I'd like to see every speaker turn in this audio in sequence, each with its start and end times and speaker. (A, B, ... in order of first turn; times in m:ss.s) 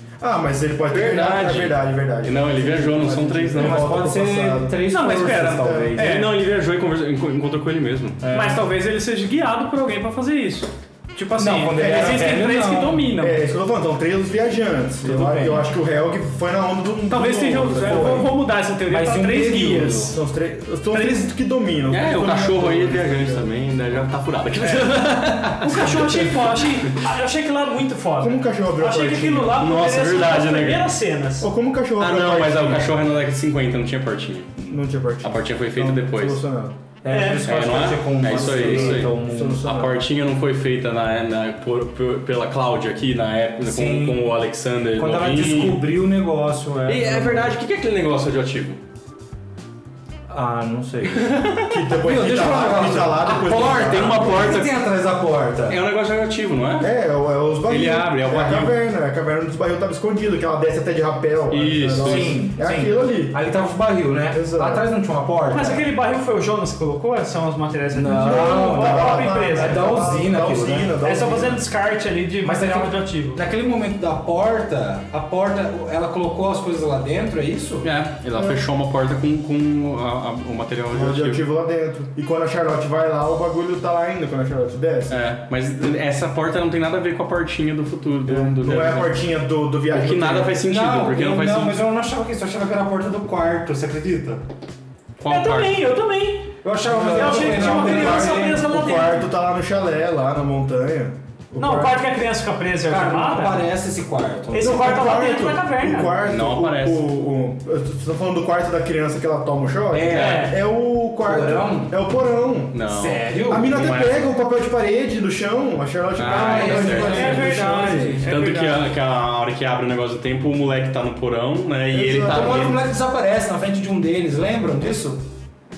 0:00.2-0:06.0 A
0:00.9-0:04.0 B
0:03.5-0:06.1 C
0:04.9-0:06.4 D
0:06.0-0:08.2 B
0:08.2-0:08.6 C
0:08.3-0:13.4 D
0:11.4-0:13.1 C
0:11.8-0:12.3 A
0:13.2-0:18.3 A
0:15.0-0:15.7 C
0:17.1-0:20.2 D
0:17.8-0:18.3 C
0:18.9-0:20.2 C
0:20.1-0:23.5 A
0:20.9-0:21.3 D
0:21.9-0:26.9 B
0:24.6-0:24.9 D
0:25.5-0:31.5 D
0:28.2-0:29.6 A
0:29.6-0:30.9 B
0:31.4-0:33.0 A
0:32.0-0:34.5 B
0:34.6-0:36.8 A
0:35.2-0:36.4 B
0:37.0-0:39.7 C
0:37.1-0:37.6 D
0:37.4-0:45.9 B
0:38.3-0:40.0 A
0:43.6-0:44.3 C
0:45.0-0:47.6 C
0:46.8-0:48.8 B
0:50.3-0:55.8 C
0:51.1-0:51.8 B
0:51.7-0:54.5 A
0:53.2-0:54.7 B
0:55.7-0:56.9 B
0:56.8-1:03.4 A
0:57.7-0:58.8 B
1:01.5-1:02.4 B
1:02.0-1:05.8 C
1:04.3-1:04.9 A
1:05.5-1:10.2 D
1:07.9-1:10.9 C
1:08.1-1:11.6 A
1:11.0-1:13.4 D
1:12.4-1:17.9 C
1:17.8-1:21.4 B
1:20.9-1:25.2 A
1:25.1-1:29.2 B
1:28.2-1:30.6 A
1:29.9-1:31.8 B
1:30.6-1:34.4 C
1:35.2-1:35.9 B
1:35.3-1:39.2 D
1:36.6-1:38.7 C
1:36.8-1:42.0 A
1:41.6-1:43.6 D
1:42.9-1:44.8 C
1:44.5-1:46.2 D
1:44.5-1:52.8 A
1:46.3-1:47.0 B
1:49.9-1:50.5 C
1:50.1-1:50.5 B
1:50.1-1:50.6 D
1:51.2-1:51.9 C
1:52.7-1:54.3 B
1:52.9-1:53.7 C
1:53.5-1:58.2 A
1:56.2-1:57.6 B
1:56.2-1:58.3 C
1:57.0-1:58.8 D
1:58.2-2:02.8 B
2:01.9-2:02.7 A
2:02.2-2:05.2 C